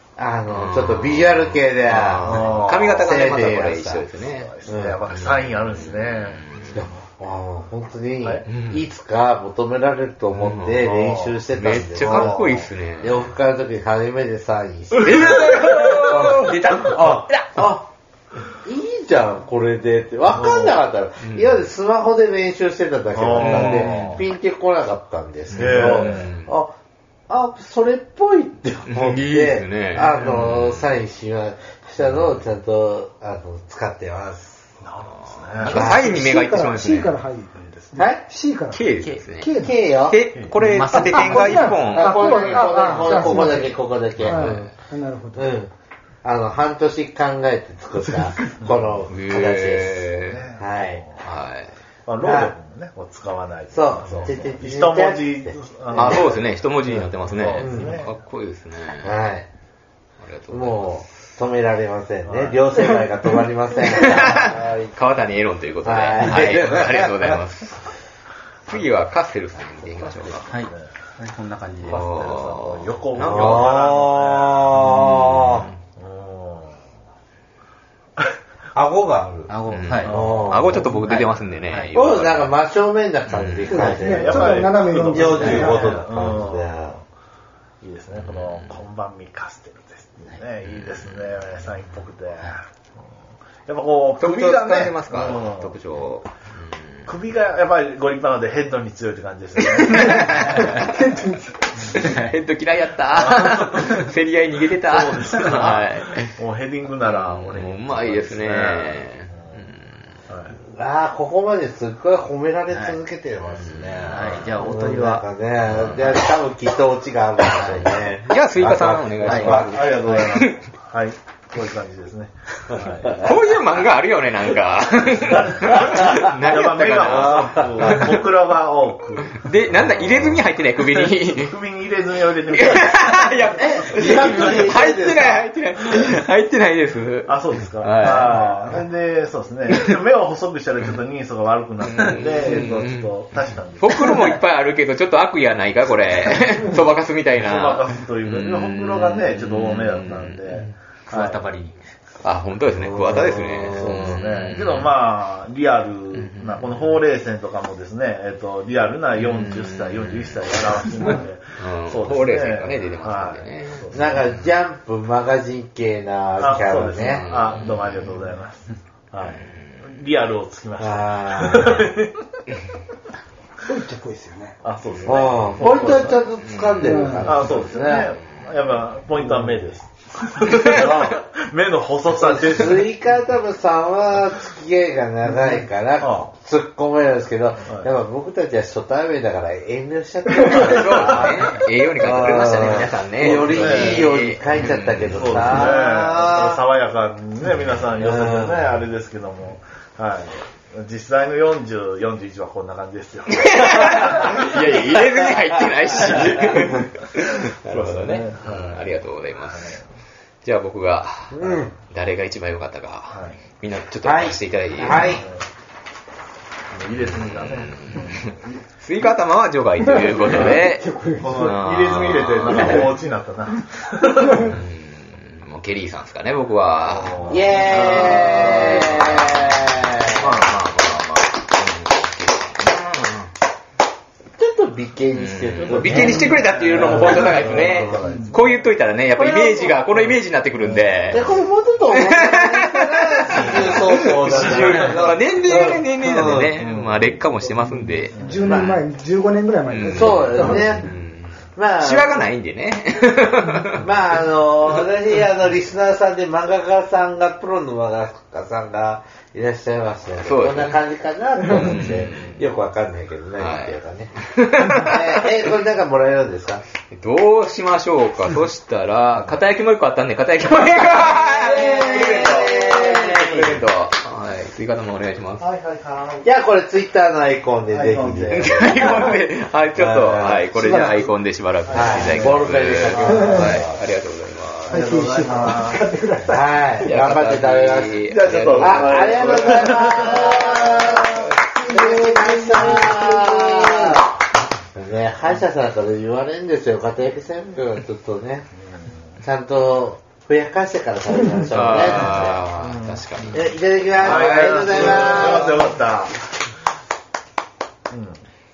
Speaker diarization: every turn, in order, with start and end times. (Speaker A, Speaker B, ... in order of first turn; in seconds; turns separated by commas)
Speaker A: 0.2-4.0, Speaker B: 0.5-4.5, Speaker C: 2.2-3.1, Speaker C: 4.1-6.5, Speaker A: 4.7-5.0, Speaker B: 5.1-6.8, Speaker A: 6.7-15.4, Speaker B: 8.4-8.8, Speaker B: 10.3-10.8, Speaker C: 10.8-11.4, Speaker B: 11.5-13.3, Speaker C: 12.0-12.5, Speaker B: 14.9-17.3, Speaker D: 15.1-17.4, Speaker A: 16.0-17.9, Speaker A: 18.6-26.7, Speaker C: 20.4-20.7, Speaker B: 21.2-21.6, Speaker C: 23.1-24.2, Speaker B: 23.3-24.3, Speaker B: 25.5-26.5, Speaker C: 25.6-26.3, Speaker A: 27.3-34.6, Speaker B: 28.8-30.9, Speaker C: 34.8-36.0, Speaker B: 35.2-37.2, Speaker A: 35.7-36.1, Speaker E: 35.7-39.7, Speaker C: 37.5-38.0, Speaker A: 38.0-38.2, Speaker B: 38.7-42.6, Speaker D: 38.9-39.2, Speaker A: 39.6-40.2, Speaker E: 40.7-45.5, Speaker D: 40.8-41.6, Speaker A: 41.9-44.6, Speaker B: 44.2-44.7, Speaker A: 45.3-45.7, Speaker A: 46.2-50.1, Speaker C: 48.6-49.0, Speaker B: 49.1-50.5, Speaker C: 50.1-51.2, Speaker A: 50.6-51.0, Speaker B: 51.2-51.7, Speaker C: 52.0-56.5, Speaker A: 52.2-52.5, Speaker A: 53.7-56.4, Speaker B: 55.9-59.2, Speaker C: 57.0-58.1, Speaker A: 57.6-58.0, Speaker A: 59.0-59.5, Speaker B: 60.2-61.0, Speaker A: 60.5-64.9, Speaker C: 62.2-62.8, Speaker B: 63.9-67.9, Speaker A: 65.8-67.4, Speaker B: 68.7-70.5, Speaker C: 70.0-70.9, Speaker D: 70.5-72.0, Speaker B: 71.8-73.7, Speaker C: 71.8-74.8, Speaker A: 73.2-75.7, Speaker B: 74.8-75.8, Speaker C: 76.0-76.8, Speaker A: 78.7-79.5, Speaker D: 79.5-80.1, Speaker B: 79.7-82.5, Speaker C: 80.0-80.8, Speaker A: 80.0-80.8, Speaker D: 80.7-81.9, Speaker A: 81.9-84.3, Speaker B: 83.3-84.0, Speaker E: 83.7-86.0, Speaker C: 84.0-86.9, Speaker A: 85.0-87.0, Speaker C: 87.8-92.7, Speaker B: 88.1-88.8, Speaker B: 90.6-91.9, Speaker C: 93.7-95.8, Speaker B: 94.2-97.1, Speaker C: 97.0-100.7, Speaker B: 99.7-100.9, Speaker E: 99.9-101.5, Speaker B: 101.9-106.3, Speaker C: 103.1-104.1, Speaker C: 104.9-109.0, Speaker B: 107.0-109.8, Speaker C: 110.3-110.6, Speaker A: 110.6-120.2, Speaker D: 112.7-113.0, Speaker B: 113.5-114.5, Speaker D: 114.0-115.2, Speaker B: 115.7-116.2, Speaker D: 117.4-117.9, Speaker B: 118.2-120.6, Speaker D: 119.3-119.5, Speaker C: 119.3-123.3, Speaker B: 123.0-128.2, Speaker C: 125.9-134.6, Speaker A: 127.0-127.9, Speaker B: 129.3-131.6, Speaker B: 132.5-138.7, Speaker A: 133.6-135.5, Speaker C: 137.2-144.2, Speaker B: 139.7-139.9, Speaker B: 141.8-143.1, Speaker B: 143.8-150.7, Speaker C: 147.3-151.5, Speaker D: 151.1-151.8, Speaker B: 152.2-154.9, Speaker A: 152.8-154.2, Speaker C: 153.7-164.3, Speaker B: 156.1-157.0, Speaker B: 159.1-164.5, Speaker A: 163.9-167.2, Speaker C: 166.4-172.2, Speaker B: 167.0-168.2, Speaker B: 169.2-169.8, Speaker A: 170.8-171.8, Speaker E: 173.6-174.6, Speaker C: 174.6-176.2, Speaker B: 174.9-178.7, Speaker A: 175.0-178.1, Speaker E: 176.8-177.3, Speaker C: 177.2-182.9, Speaker B: 180.5-181.0, Speaker A: 180.6-181.1, Speaker A: 182.1-196.6, Speaker C: 186.0-186.3, Speaker B: 190.5-195.6, Speaker C: 193.3-194.2, Speaker C: 195.1-204.7, Speaker A: 198.0-198.8, Speaker B: 203.3-209.7, Speaker C: 206.1-206.8, Speaker C: 207.6-209.8, Speaker B: 210.4-215.2, Speaker A: 211.3-211.7, Speaker C: 213.1-213.4, Speaker A: 214.0-215.2, Speaker C: 214.9-215.4, Speaker C: 216.7-218.4, Speaker B: 217.0-223.0, Speaker E: 219.9-221.5, Speaker C: 220.2-220.6, Speaker C: 221.2-224.5, Speaker B: 224.3-233.3, Speaker C: 226.9-228.8, Speaker A: 227.3-230.3, Speaker C: 230.2-230.5, Speaker A: 234.4-238.1, Speaker B: 235.1-241.4, Speaker C: 235.6-238.5, Speaker A: 241.1-244.7, Speaker B: 241.9-248.8, Speaker C: 243.7-245.1, Speaker D: 244.3-245.0, Speaker A: 245.4-246.5, Speaker C: 246.6-247.1, Speaker C: 248.1-248.5, Speaker E: 248.2-250.7, Speaker A: 248.4-248.7, Speaker B: 249.7-253.9, Speaker A: 249.9-250.9, Speaker A: 251.5-252.2, Speaker A: 253.8-266.6, Speaker B: 260.2-260.8, Speaker B: 261.4-262.5, Speaker B: 263.4-265.3, Speaker B: 266.9-275.4, Speaker C: 269.1-269.4, Speaker A: 271.1-273.6, Speaker C: 275.4-276.3, Speaker A: 276.2-278.5, Speaker C: 277.7-278.9, Speaker B: 278.3-284.9, Speaker A: 279.8-280.5, Speaker E: 280.5-281.1, Speaker A: 281.7-283.8, Speaker E: 283.0-283.5, Speaker E: 284.7-286.7, Speaker C: 284.7-285.9, Speaker A: 286.3-288.0, Speaker B: 286.8-290.5, Speaker C: 288.0-291.2, Speaker A: 288.5-294.1, Speaker E: 291.7-293.9, Speaker A: 294.7-298.5, Speaker C: 298.6-299.2, Speaker A: 299.2-302.4, Speaker B: 301.5-305.5, Speaker C: 302.5-303.0, Speaker A: 303.3-305.6, Speaker C: 304.0-306.2, Speaker C: 307.9-308.2